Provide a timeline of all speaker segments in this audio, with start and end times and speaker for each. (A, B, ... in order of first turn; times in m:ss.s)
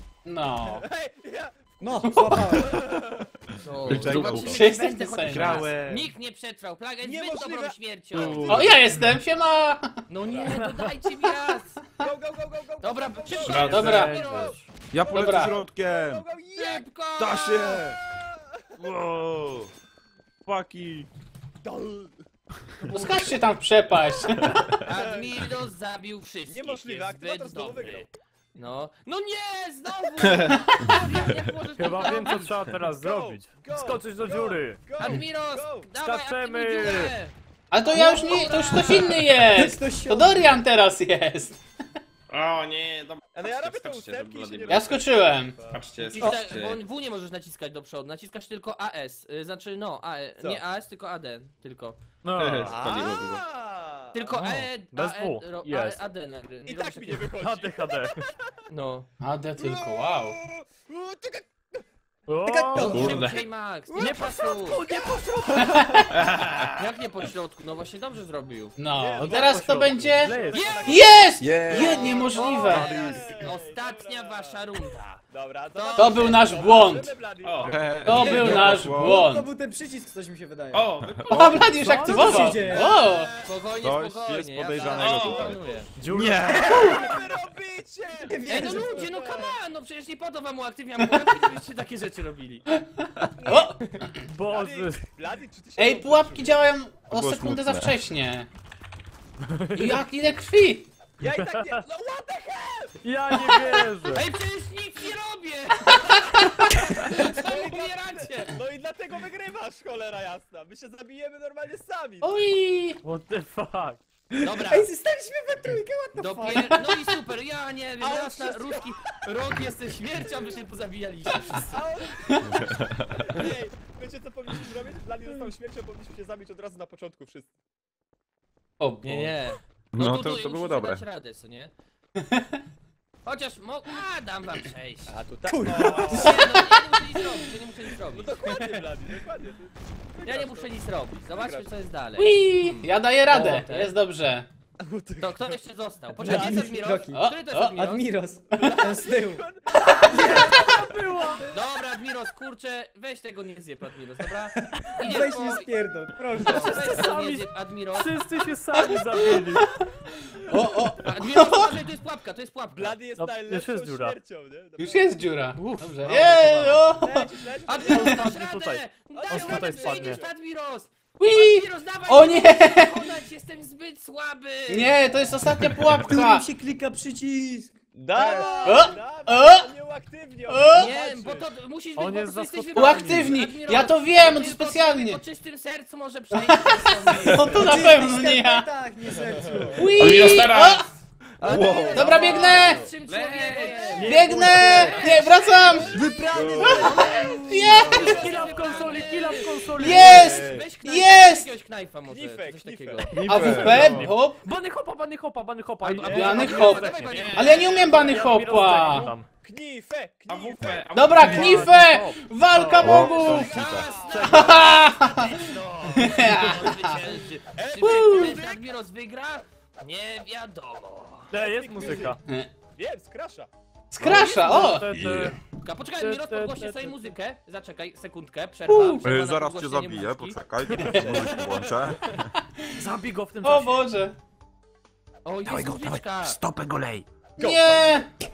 0:00.3-0:00.8 A
0:00.6-0:03.3 B
0:01.8-0:02.8 C
0:02.1-0:02.4 A
0:03.6-0:08.7 D
0:03.8-0:04.1 B
0:03.8-0:06.1 E
0:04.0-0:05.7 A
0:07.0-0:08.8 B
0:08.2-0:08.8 F
0:08.2-0:08.6 E
0:08.5-0:10.0 A
0:10.1-0:11.8 D
0:10.4-0:10.9 G
0:12.0-0:13.9 B
0:12.8-0:14.6 D
0:13.4-0:14.1 F
0:13.5-0:14.2 A
0:13.6-0:14.7 G
0:14.9-0:16.2 E
0:15.1-0:16.9 B
0:15.1-0:15.6 A
0:16.6-0:17.8 D
0:17.2-0:18.0 E
0:17.8-0:18.7 B
0:18.8-0:19.7 E
0:20.5-0:21.1 E
0:21.6-0:22.2 B
0:22.8-0:23.3 B
0:22.9-0:24.8 A
0:24.8-0:32.6 D
0:24.9-0:25.5 B
0:26.5-0:28.1 B
0:30.3-0:30.6 B
0:31.8-0:34.8 G
0:31.9-0:35.9 B
0:35.0-0:37.3 D
0:36.0-0:37.1 G
0:37.7-0:41.6 A
0:37.9-0:38.8 C
0:38.2-0:39.2 D
0:39.5-0:40.5 C
0:42.3-0:45.0 F
0:43.3-0:45.8 B
0:44.7-0:45.6 A
0:45.7-0:46.8 F
0:46.1-0:52.0 D
0:52.2-0:52.8 G
0:52.4-0:53.4 F
0:52.6-0:54.3 B
0:54.1-0:57.3 D
0:54.4-0:56.0 G
0:56.6-0:58.5 B
0:57.4-0:58.2 G
0:58.7-0:59.1 D
0:59.2-1:00.4 A
0:59.6-1:01.8 B
1:02.3-1:03.2 G
1:02.4-1:03.3 C
1:02.8-1:04.8 D
1:02.9-1:03.5 F
1:03.9-1:05.5 B
1:04.0-1:05.8 G
1:05.6-1:06.1 A
1:06.3-1:06.7 F
1:06.8-1:08.8 D
1:08.8-1:13.1 A
1:08.9-1:14.6 B
1:09.2-1:11.0 G
1:10.5-1:11.0 D
1:11.4-1:12.0 E
1:11.9-1:12.2 F
1:12.4-1:15.2 D
1:12.6-1:13.3 E
1:12.7-1:13.2 G
1:15.3-1:18.6 B
1:15.7-1:16.5 D
1:16.0-1:17.2 A
1:17.4-1:18.0 F
1:17.6-1:19.2 E
1:18.0-1:19.5 A
1:18.1-1:20.9 C
1:20.7-1:21.8 F
1:21.0-1:21.6 E
1:21.3-1:23.3 A
1:21.4-1:21.7 B
1:21.6-1:22.7 G
1:21.9-1:23.0 C
1:22.7-1:23.4 B
1:23.4-1:25.9 D
1:23.8-1:27.1 E
1:24.7-1:26.0 B
1:26.0-1:26.6 G
1:26.6-1:29.6 B
1:26.7-1:27.1 C
1:28.2-1:29.1 C
1:28.5-1:32.7 D
1:33.0-1:33.9 A
1:34.3-1:35.0 G
1:34.5-1:36.6 B
1:35.8-1:38.5 A
1:37.1-1:37.9 E
1:39.5-1:40.0 G
1:39.7-1:40.9 A
1:41.2-1:43.6 B
1:41.3-1:41.8 G
1:43.0-1:44.2 G
1:44.1-1:48.6 D
1:47.1-1:52.3 B
1:52.2-1:53.0 A
1:53.0-1:54.0 G
1:54.3-1:56.9 C
1:54.4-1:54.9 D
1:56.2-2:01.7 D
1:58.0-1:59.0 B
2:01.6-2:07.5 B
2:02.5-2:03.1 E
2:08.8-2:09.4 A
2:09.0-2:11.7 D
2:09.9-2:11.0 E
2:13.2-2:15.2 D
2:15.1-2:16.8 B
2:15.5-2:16.4 C
2:16.0-2:18.4 D
2:16.2-2:16.6 A
2:18.0-2:21.7 B
2:20.2-2:23.9 D
2:22.2-2:24.5 A
2:24.8-2:25.6 B
2:25.2-2:28.1 D
2:26.2-2:29.4 C
2:26.2-2:26.8 B
2:27.1-2:27.8 A
2:28.6-2:29.6 B
2:30.1-2:31.5 G
2:30.1-2:30.7 C
2:31.5-2:35.7 D
2:35.0-2:37.0 C
2:36.4-2:38.2 D
2:36.4-2:39.7 G
2:40.5-2:41.8 A
2:40.6-2:40.9 B
2:41.0-2:43.0 D
2:42.7-2:45.3 B
2:43.2-2:44.2 G
2:44.8-2:47.3 A
2:45.6-2:46.8 D
2:47.0-2:48.4 B
2:47.7-2:55.2 D
2:47.9-2:50.2 G
2:49.1-2:50.4 B
2:51.2-2:53.1 A
2:54.7-2:56.5 A
2:56.0-2:57.7 C
2:58.0-3:01.5 B
2:58.2-2:58.8 D
2:58.6-2:59.7 A
3:00.5-3:00.9 A
3:00.7-3:08.0 D
3:02.0-3:03.4 G
3:02.8-3:05.2 A
3:06.3-3:08.7 A
3:07.4-3:10.3 C
3:09.2-3:09.9 B
3:09.7-3:10.9 A
3:10.0-3:10.8 F
3:11.4-3:12.8 E
3:11.4-3:16.0 D
3:11.9-3:12.9 A
3:13.0-3:14.2 F
3:14.0-3:15.3 G
3:14.0-3:16.0 A
3:15.0-3:15.5 B
3:15.9-3:17.9 C
3:16.3-3:17.2 E
3:16.6-3:23.2 D
3:16.6-3:18.3 A
3:17.8-3:20.4 G
3:17.9-3:19.3 B
3:19.7-3:21.5 A
3:19.9-3:20.7 E
3:22.1-3:23.3 B
3:23.1-3:24.1 E
3:23.2-3:24.4 A
3:23.4-3:29.3 G
3:25.8-3:29.1 D
3:26.0-3:29.1 A
3:26.1-3:26.7 B
3:27.1-3:28.1 F
3:29.4-3:31.6 B
3:30.3-3:31.7 F
3:30.9-3:33.7 A
3:31.2-3:33.2 G
3:32.8-3:33.9 E
3:33.2-3:41.3 D
3:33.8-3:36.5 B
3:34.0-3:34.6 G
3:34.3-3:37.0 A
3:36.2-3:36.5 G
3:37.5-3:38.6 B
3:37.8-3:38.4 A
3:41.3-3:42.2 G
3:41.3-3:42.2 B
3:42.8-3:43.5 B
3:43.9-3:44.9 A
3:44.0-3:45.4 G
3:44.9-3:45.4 E
3:45.6-3:51.6 D
3:46.0-3:47.1 G
3:48.7-3:49.0 A
3:49.0-3:52.3 E
3:50.8-3:51.7 B
3:50.9-3:51.2 A
3:52.8-3:53.9 G
3:53.4-3:54.2 A
3:55.2-3:56.4 D
3:55.5-3:55.9 E
3:55.7-3:56.8 F
3:56.5-3:57.0 E
3:57.4-3:58.0 B
3:57.4-3:58.1 A